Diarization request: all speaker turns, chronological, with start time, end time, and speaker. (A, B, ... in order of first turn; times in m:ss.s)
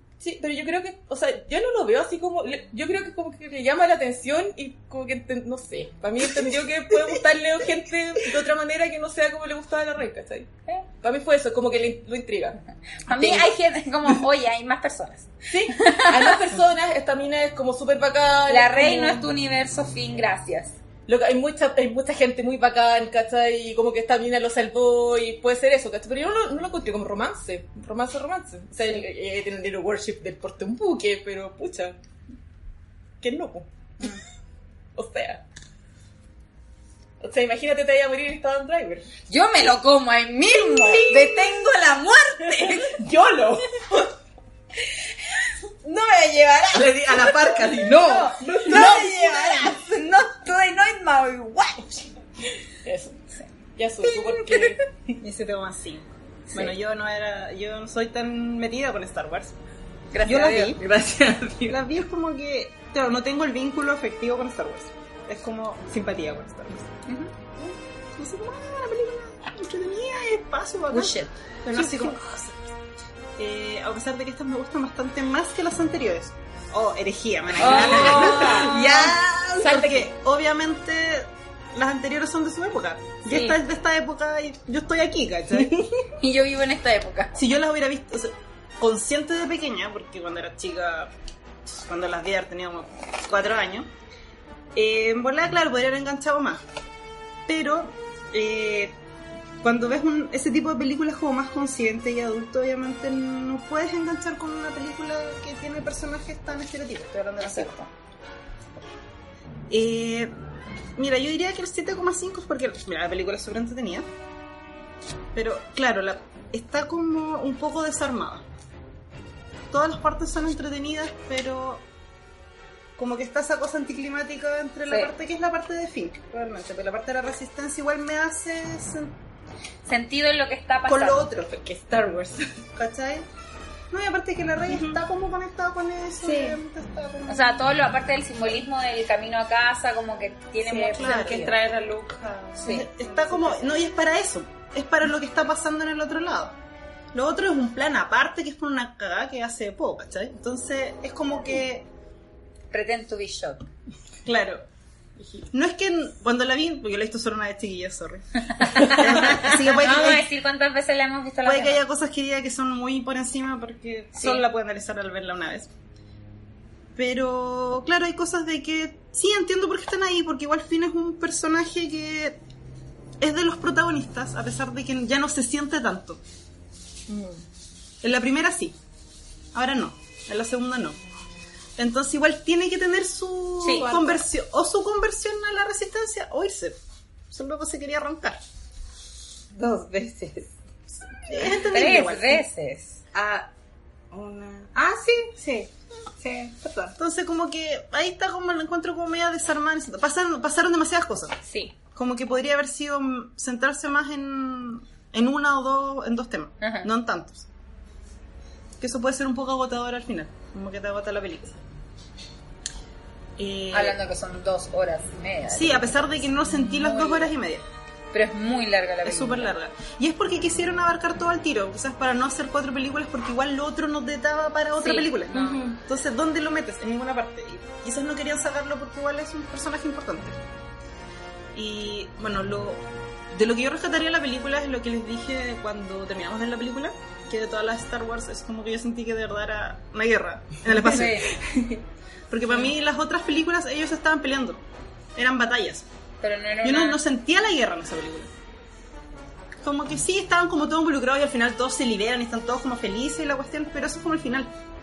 0:00.2-0:10.5 A
0:11.0-0:13.5 A
0:13.1-0:16.4 B
0:15.5-0:19.3 A
0:18.5-0:20.7 B
0:21.1-0:32.0 A
0:33.2-0:33.7 A
0:35.0-0:35.4 A
0:37.2-0:39.1 A
0:39.3-0:43.0 B
0:40.6-0:41.6 A
0:42.6-0:44.0 A
0:45.8-0:52.1 B
0:46.7-0:48.3 C
0:48.2-0:49.8 A
0:52.8-0:53.2 A
0:53.8-0:54.8 A
0:54.0-0:54.8 B
0:55.2-0:59.6 D
1:00.1-1:00.8 B
1:00.2-1:00.8 D
1:00.8-1:01.8 C
1:01.7-1:06.9 D
1:07.1-1:07.3 B
1:07.6-1:12.6 D
1:10.9-1:12.2 B
1:13.4-1:25.8 D
1:17.6-1:19.0 B
1:17.6-1:19.8 C
1:17.6-1:20.1 A
1:23.2-1:23.6 B
1:26.2-1:27.4 B
1:27.4-1:31.1 D
1:31.6-1:33.9 D
1:34.8-1:36.6 D
1:37.5-1:38.9 D
1:39.6-1:47.8 D
1:47.4-1:47.9 B
1:49.7-1:50.3 D
1:51.0-1:54.1 D
1:55.4-1:58.4 D
1:59.7-2:01.8 D
2:03.0-2:09.1 D
2:09.8-2:11.3 B
2:10.9-2:11.5 D
2:11.4-2:12.5 C
2:12.8-2:13.3 D
2:13.9-2:17.6 D
2:14.7-2:15.0 C
2:16.2-2:16.6 C
2:17.3-2:21.6 B
2:20.6-2:23.6 C
2:20.9-2:21.5 D
2:22.6-2:22.9 B
2:22.6-2:26.6 D
2:27.1-2:31.9 D
2:32.7-2:33.6 B
2:34.2-2:34.6 D
2:35.5-2:40.3 D
2:38.6-2:41.8 B
2:41.4-2:45.7 D
2:44.2-2:44.4 B
2:47.0-2:52.4 D
2:53.2-2:56.2 D
2:57.1-2:57.4 A
2:58.0-2:58.8 D
2:59.5-3:01.0 D
3:01.8-3:06.8 D
3:03.6-3:03.9 B
3:03.7-3:04.2 C
3:07.3-3:08.4 D
3:09.5-3:10.5 C
3:11.3-3:12.4 D
3:11.7-3:13.0 B
3:13.1-3:13.5 C
3:14.1-3:17.0 C
3:17.0-3:21.4 D
3:21.5-3:21.7 B
3:21.9-3:27.5 D
3:26.6-3:26.9 B
3:28.8-3:31.6 D
3:33.4-3:34.0 D
3:33.7-3:37.3 B
3:35.5-3:37.6 D
3:38.1-3:39.5 B
3:39.0-3:50.4 D
3:44.8-3:45.1 B
3:45.3-3:45.8 C
3:51.5-4:01.2 D
4:00.7-4:01.3 B
4:01.4-4:01.8 C
4:02.3-4:04.6 D
4:05.2-4:05.9 D
4:06.2-4:07.0 B
4:06.6-4:08.3 D
4:09.6-4:14.5 D